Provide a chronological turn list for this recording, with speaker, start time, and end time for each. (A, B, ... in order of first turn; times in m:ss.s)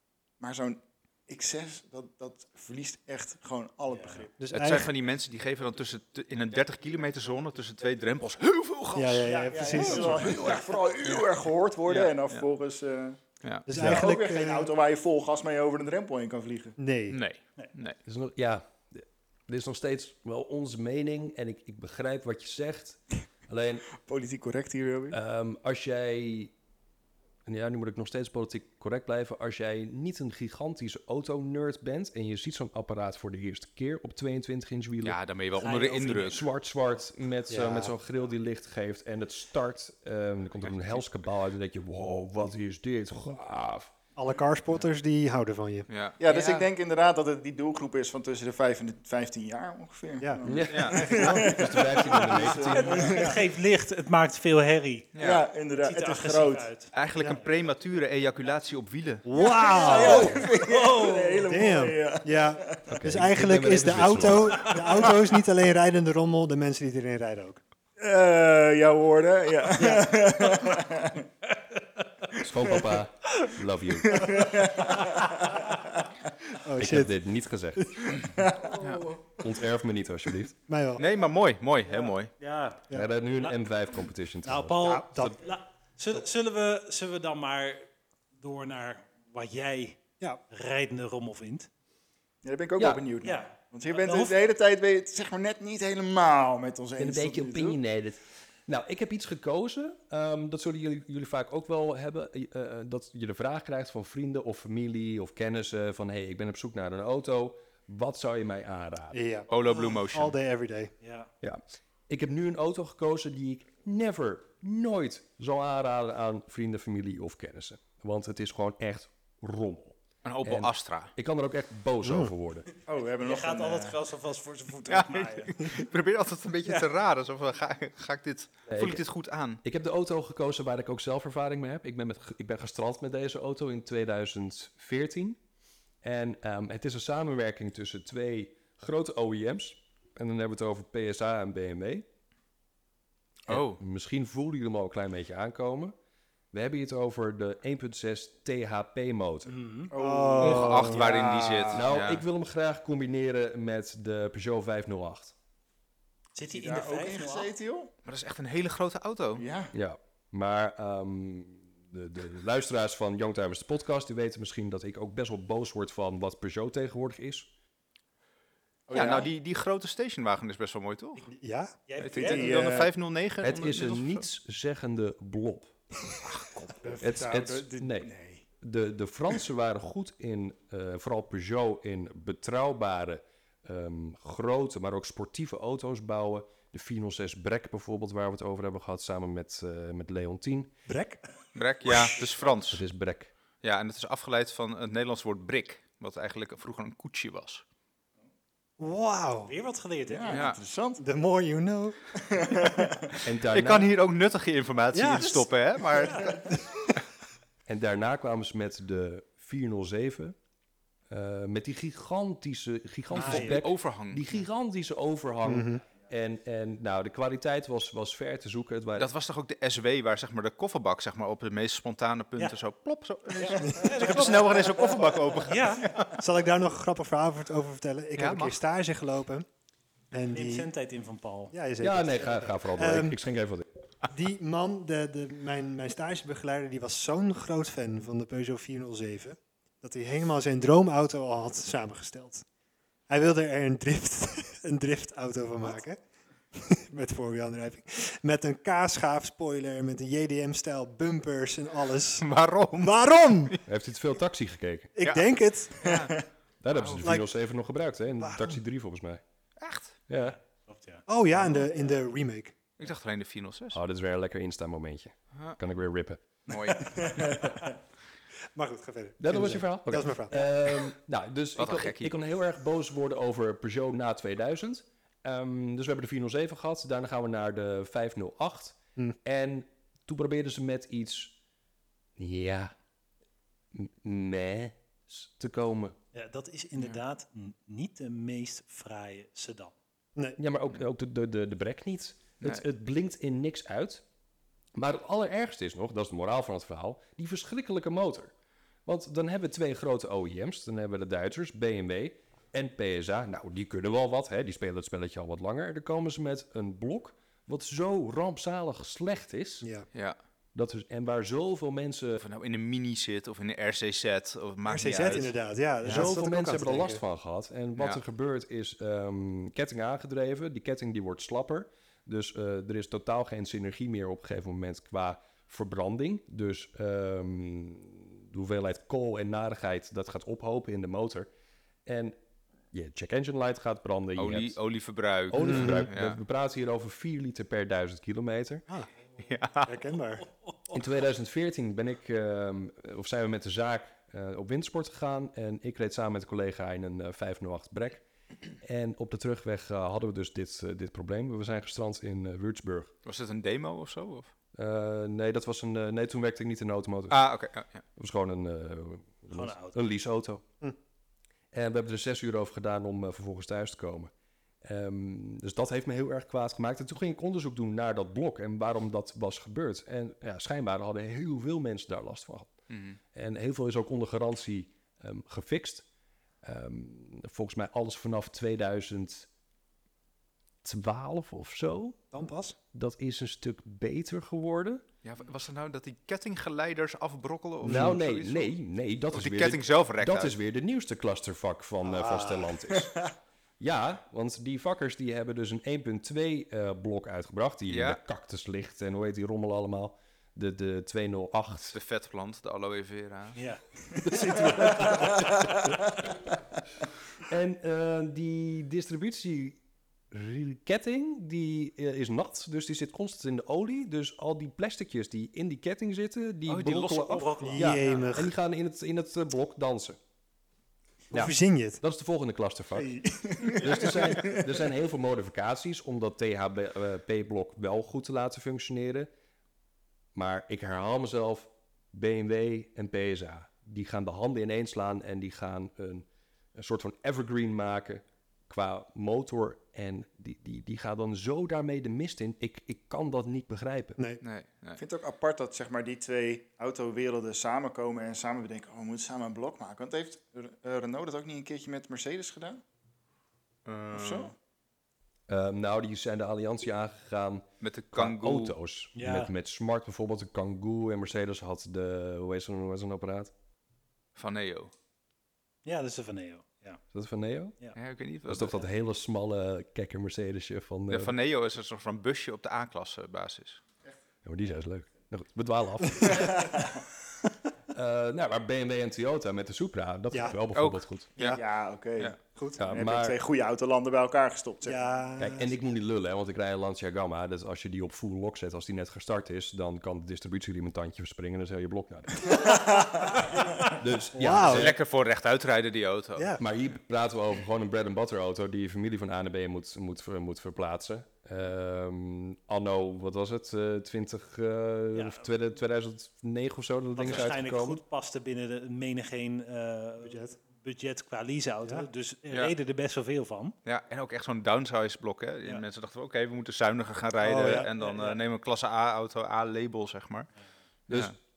0:00.4-0:04.3 A
0:03.9-0:04.2 B
0:04.4-0:04.9 C
0:04.5-0:11.3 D
0:08.9-0:10.5 C
0:09.2-0:16.8 A
0:09.3-0:10.1 B
0:11.8-0:12.4 D
0:13.4-0:13.7 D
0:13.7-0:14.7 C
0:16.8-0:17.2 C
0:17.1-0:18.0 D
0:18.0-0:23.9 E
0:24.0-0:25.2 A
0:25.1-0:26.5 E
0:27.4-0:35.2 E
0:35.0-0:36.4 D
0:35.6-0:36.4 B
0:36.1-0:43.9 E
0:37.5-0:38.0 C
0:44.2-0:45.9 C
0:45.9-0:46.2 D
0:46.2-0:53.4 A
0:50.2-0:51.7 C
0:50.4-0:53.2 E
0:50.7-0:51.3 D
0:52.1-0:55.1 B
0:52.9-0:53.4 C
0:55.1-0:55.4 D
0:55.2-0:56.7 A
0:55.7-0:56.9 B
0:56.9-0:59.2 D
0:59.2-1:00.4 C
0:59.4-1:02.9 A
0:59.8-1:01.5 B
1:01.4-1:07.6 C
1:02.9-1:04.7 E
1:08.0-1:11.3 A
1:09.8-1:10.2 C
1:11.7-1:12.0 B
1:12.4-1:14.4 E
1:12.6-1:12.9 A
1:14.1-1:16.1 A
1:16.6-1:17.2 C
1:16.8-1:18.0 E
1:17.8-1:18.1 C
1:18.1-1:19.2 A
1:18.8-1:19.1 D
1:19.4-1:20.5 E
1:20.7-1:21.0 C
1:21.0-1:22.3 D
1:22.1-1:22.8 B
1:22.9-1:25.3 E
1:24.5-1:31.7 B
1:24.7-1:25.4 C
1:32.4-1:37.8 A
1:32.8-1:33.0 E
1:33.2-1:34.4 B
1:37.0-1:49.2 E
1:49.1-1:50.9 C
1:49.5-1:50.4 D
1:51.0-1:51.3 B
1:51.4-2:02.7 E
2:00.2-2:01.1 D
2:02.0-2:02.3 C
2:02.8-2:04.0 A
2:03.2-2:05.6 B
2:04.9-2:09.6 D
2:08.7-2:09.0 E
2:09.6-2:15.4 E
2:16.0-2:22.0 E
2:23.5-2:23.8 D
2:23.5-2:25.9 E
2:26.5-2:29.6 E
2:29.5-2:29.9 B
2:29.9-2:31.9 A
2:29.9-2:31.0 C
2:30.4-2:32.2 D
2:31.7-2:35.3 E
2:36.3-2:37.5 B
2:36.5-2:37.9 A
2:38.0-2:39.4 D
2:39.4-2:39.7 A
2:39.7-2:47.5 E
2:48.9-2:49.3 A
2:48.9-2:51.2 D
2:51.3-2:51.8 C
2:51.9-2:52.6 B
2:52.0-2:54.2 D
2:52.1-2:52.9 A
2:53.4-2:55.8 E
2:56.2-2:56.8 D
2:56.8-2:58.4 A
2:57.0-3:10.7 E
3:10.8-3:11.2 C
3:11.5-3:12.8 D
3:12.7-3:13.3 E
3:13.6-3:17.6 D
3:18.8-3:19.5 C
3:19.4-3:20.5 B
3:20.1-3:21.0 A
3:20.3-3:20.6 D
3:21.0-3:22.0 C
3:22.1-3:23.2 A
3:23.2-3:23.9 E
3:23.4-3:26.4 D
3:24.9-3:25.4 C
3:26.0-3:26.4 A
3:26.1-3:26.9 C
3:27.7-3:30.4 E
3:31.1-3:39.1 E
3:33.1-3:34.4 D
3:33.2-3:33.6 C
3:35.4-3:35.8 C
3:39.0-3:46.1 D
3:43.4-3:44.3 A
3:43.6-3:44.1 C
3:43.7-3:44.5 B
3:45.4-3:45.9 B
3:46.2-3:49.4 C
3:48.2-3:48.6 D
3:50.1-3:50.7 C
3:50.3-3:51.5 B
3:51.5-3:53.2 C
3:51.8-3:53.6 E
3:54.1-4:02.4 C
4:03.1-4:06.0 C
4:06.5-4:13.6 C
4:12.2-4:13.6 D
4:13.6-4:14.9 E
4:14.9-4:16.1 C
4:15.0-4:17.1 D
4:15.8-4:16.1 A
4:16.6-4:19.2 E
4:17.0-4:17.3 C
4:18.2-4:18.6 C
4:19.6-4:20.0 D
4:20.1-4:20.4 E
4:20.7-4:21.0 B
4:21.1-4:22.5 C
4:22.8-4:23.8 D
4:23.7-4:26.2 E
4:26.5-4:27.0 D
4:26.8-4:27.7 A
4:28.5-4:30.5 C
4:29.2-4:41.3 E
4:31.6-4:32.1 D
4:42.2-4:42.7 E
4:43.7-4:46.0 E
4:46.1-4:49.7 B
4:46.7-4:47.0 D
4:50.4-4:54.0 E
4:54.7-4:58.3 E
4:58.8-5:09.6 E
5:09.6-5:09.9 C
5:10.5-5:12.2 E
5:12.2-5:15.3 D
5:14.7-5:17.0 C
5:15.8-5:31.3 E
5:31.8-5:32.2 E
5:32.7-5:34.6 E
5:34.2-5:36.2 D
5:35.3-5:38.6 E
5:35.3-5:35.9 C
5:39.2-5:39.8 D
5:39.6-5:40.2 C
5:40.7-5:48.0 E
5:48.6-5:52.9 E
5:53.0-5:54.3 D
5:54.5-5:57.3 E
5:57.1-5:57.8 D
5:58.0-6:00.4 E
5:59.3-5:59.8 B
6:01.5-6:04.1 E
6:04.6-6:12.6 E
6:12.7-6:13.0 D
6:13.1-6:15.8 E
6:16.4-6:19.3 E
6:20.6-6:22.0 E
6:22.1-6:22.6 C
6:22.7-6:24.8 E
6:25.0-6:28.5 D
6:27.6-6:28.0 C
6:27.6-6:32.9 E
6:29.1-6:30.3 D
6:31.8-6:32.6 C
6:32.7-6:33.1 A
6:33.6-6:41.8 E
6:37.7-6:38.0 D
6:41.7-6:43.4 D
6:43.3-6:43.6 B
6:44.0-6:46.2 E
6:44.2-6:45.1 C
6:47.2-6:49.6 E
6:50.1-7:00.0 E
6:56.5-6:57.3 D
6:57.0-6:58.1 B
6:57.4-6:58.3 C
7:01.1-7:01.8 C
7:01.1-7:02.9 E
7:02.8-7:04.5 A
7:03.6-7:09.1 E
7:10.1-7:24.0 E
7:24.0-7:24.2 C
7:24.2-7:24.8 D
7:24.8-7:32.6 A
7:33.6-7:34.3 D
7:33.9-7:34.3 A
7:35.3-7:43.3 E
7:37.6-7:38.6 D
7:38.9-7:39.3 B
7:44.2-7:44.7 D
7:45.6-7:46.8 B
7:46.9-7:47.6 E
7:47.8-7:48.6 D
7:48.2-7:51.1 E
7:50.9-7:53.6 D
7:54.2-7:56.4 E
7:56.1-7:56.8 A
7:57.7-8:01.1 E
8:00.1-8:00.4 C
8:00.5-8:01.4 D
8:01.2-8:04.9 A
8:02.3-8:02.8 C
8:02.6-8:03.2 E
8:04.6-8:05.5 C
8:05.2-8:12.5 E
8:12.3-8:13.3 A
8:13.6-8:14.8 E
8:14.1-8:14.7 C
8:14.4-8:16.4 D
8:16.2-8:16.4 C
8:16.4-8:27.8 E
8:24.9-8:25.3 B
8:27.0-8:33.6 B
8:30.0-8:30.4 C
8:33.6-8:40.3 D
8:37.2-8:37.7 C
8:37.7-8:38.2 B
8:40.9-8:41.2 E